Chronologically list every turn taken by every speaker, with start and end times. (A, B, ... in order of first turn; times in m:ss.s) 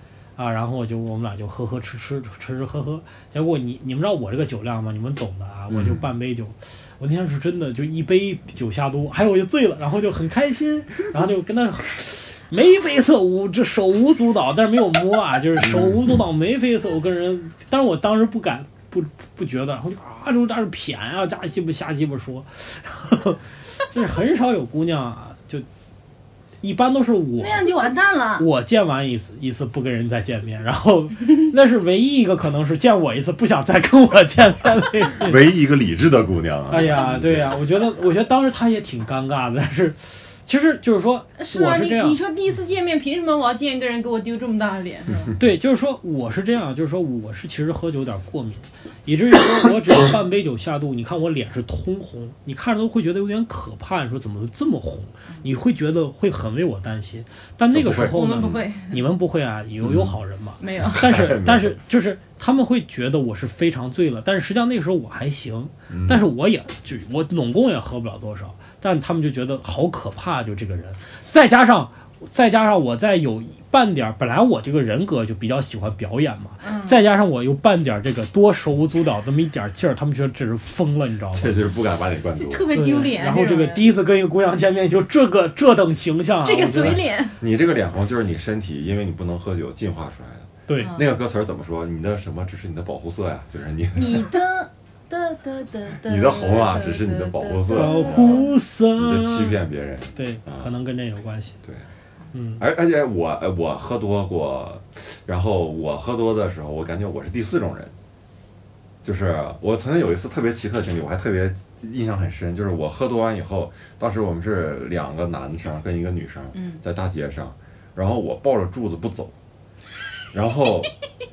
0:00.4-0:25.7 A
0:05.7-0:06.0 B
0:15.6-0:16.1 B
0:26.6-0:27.7 A
0:27.4-0:28.5 C
0:28.4-0:35.4 A
0:35.1-0:37.7 B
0:36.7-0:42.2 A
0:41.4-0:45.3 C
0:45.4-1:21.6 A
0:57.7-0:58.6 B
0:58.1-0:59.0 C
0:59.8-1:00.2 B
1:00.6-1:01.1 C
1:00.8-1:01.8 B
1:05.9-1:06.2 B
1:16.6-1:17.0 C
1:21.3-1:22.7 B
1:22.4-1:23.9 C
1:22.7-1:27.0 A
1:26.4-1:27.4 C
1:26.8-1:34.3 B
1:30.7-1:31.0 A
1:30.8-1:31.0 C
1:34.0-1:38.5 C
1:36.0-1:40.7 B
1:37.7-1:39.6 A
1:40.2-1:41.6 A
1:42.3-1:42.6 A
1:42.6-1:47.9 B
1:49.0-1:59.3 B
1:56.5-1:56.8 C
2:00.3-2:00.9 B